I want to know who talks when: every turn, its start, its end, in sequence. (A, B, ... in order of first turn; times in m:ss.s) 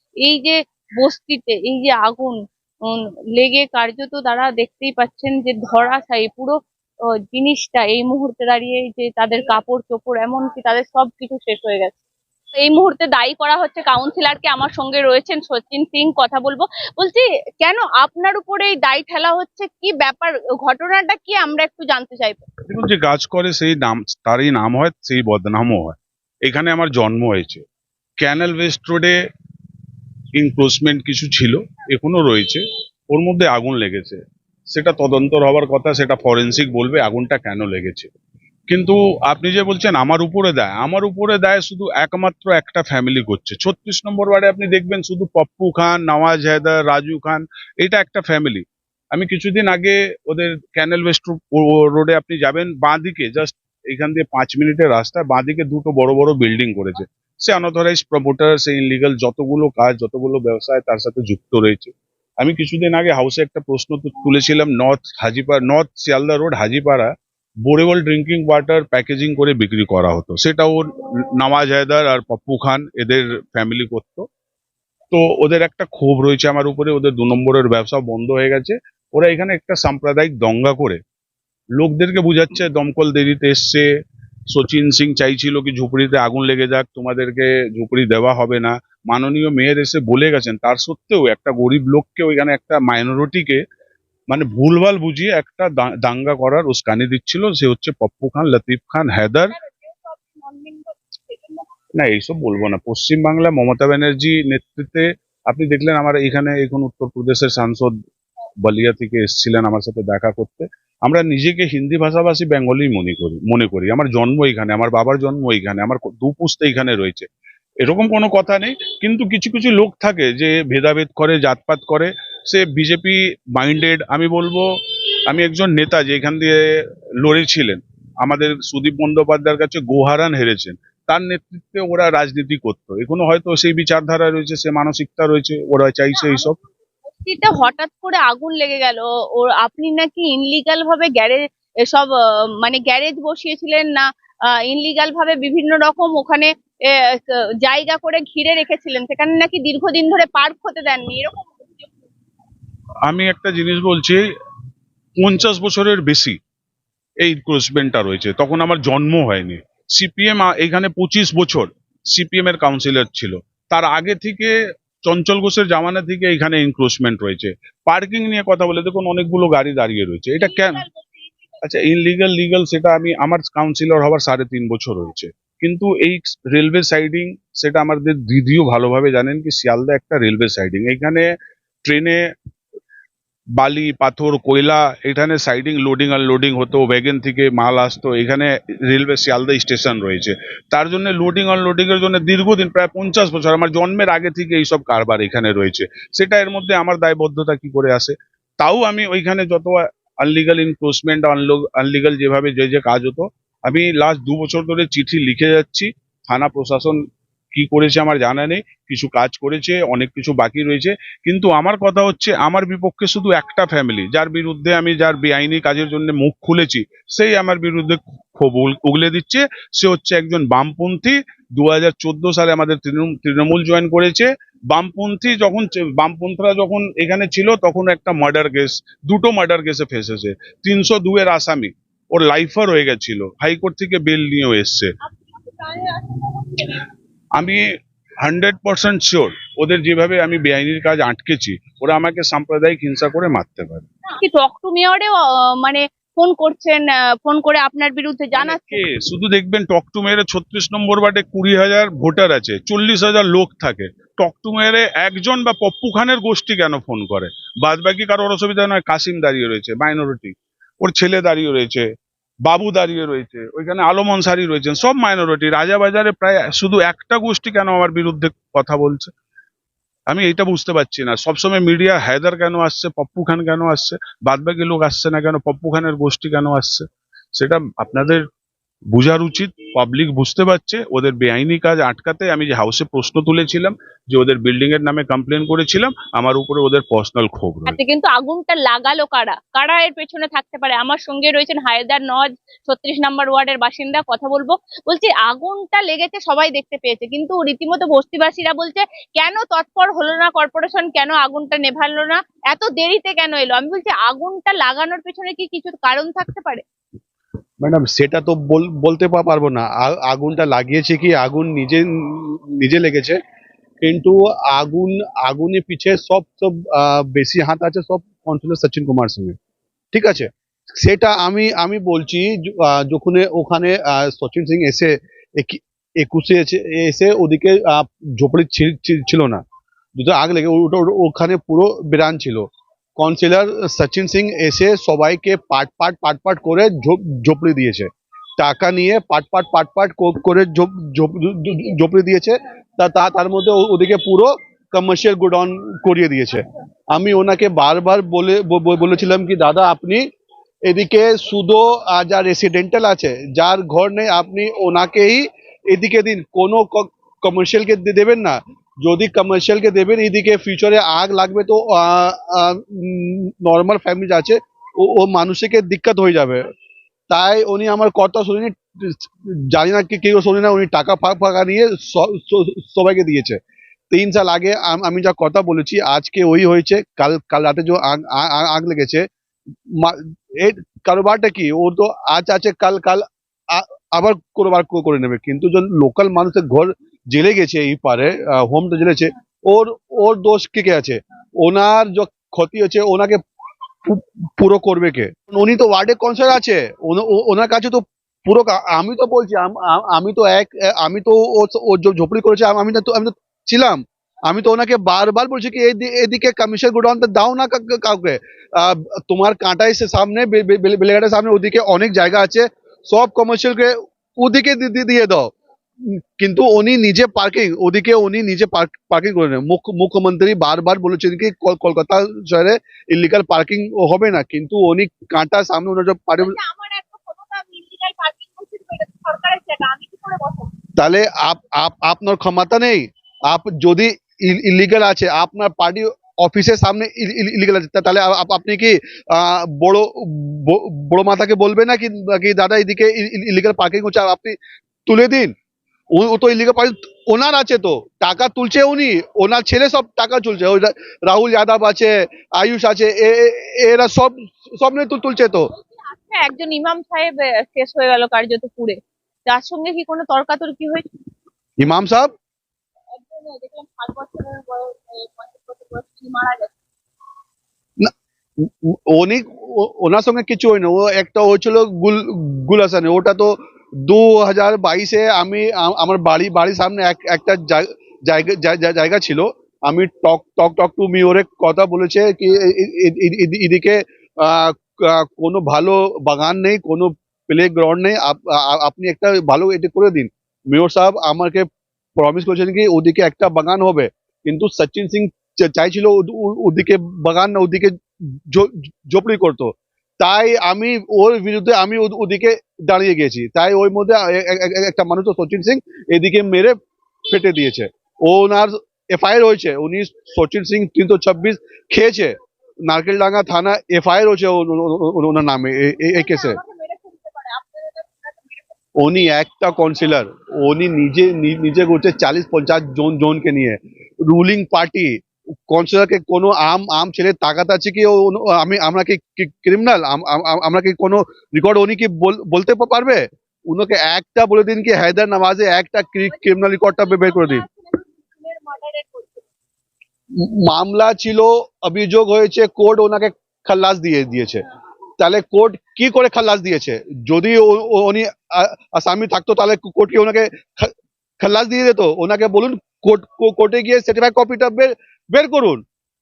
0:00.2-0:06.6 A
0:07.3-0:12.0 A
0:12.6-0:22.4 A
0:22.7-0:27.6 B
0:28.2-0:29.2 B
0:30.4-0:38.1 B
0:38.7-1:07.1 B
1:07.6-1:14.3 B
1:15.1-1:21.0 B
1:21.8-1:23.9 B
1:24.5-1:33.6 B
1:34.3-1:39.6 B
1:39.5-1:41.8 A
1:42.0-1:47.9 B
1:48.6-1:57.3 B
1:57.8-2:04.7 B
2:05.3-2:06.6 B
2:07.2-2:16.6 B
2:16.1-2:16.7 A
2:17.2-2:22.1 A
2:22.6-2:26.5 A
2:27.1-2:32.1 A
2:33.1-2:34.2 B
2:35.2-2:36.4 B
2:37.2-2:44.5 B
2:45.1-2:50.8 B
2:50.4-2:51.6 A
2:51.6-3:01.3 B
3:01.9-3:02.2 B
3:03.6-3:27.0 B
3:27.5-3:54.9 B
3:55.2-3:56.8 A
3:58.2-4:03.9 B
4:04.1-4:08.8 A
4:08.3-4:21.9 B
4:22.4-4:29.1 B
4:30.1-4:38.2 B
4:38.9-4:47.8 B
4:47.7-5:06.6 A
5:07.6-5:13.2 C
5:13.8-5:19.4 C
5:19.9-5:29.4 C
5:30.0-5:32.5 C
5:33.0-5:50.0 C
5:50.7-6:06.4 C
6:07.1-6:09.0 C
6:09.5-6:13.4 C
6:13.9-6:19.0 C
6:19.8-6:33.2 C
6:33.8-6:55.3 C
6:55.8-7:06.4 C
7:06.2-7:10.5 A
7:10.8-7:24.4 C
7:24.9-7:25.3 C
7:26.0-7:35.5 C
7:35.5-7:40.8 A
7:41.6-7:42.1 C
7:42.9-7:46.5 A
7:47.8-7:53.3 C
7:53.9-8:11.4 C
8:12.0-8:17.7 C
8:18.3-8:26.6 C
8:27.1-8:32.1 C
8:32.7-8:36.4 C
8:35.9-8:38.6 A
8:38.8-8:44.9 C
8:45.5-8:57.4 C
8:56.1-8:59.2 A
9:00.2-9:04.4 C
9:05.0-9:15.6 C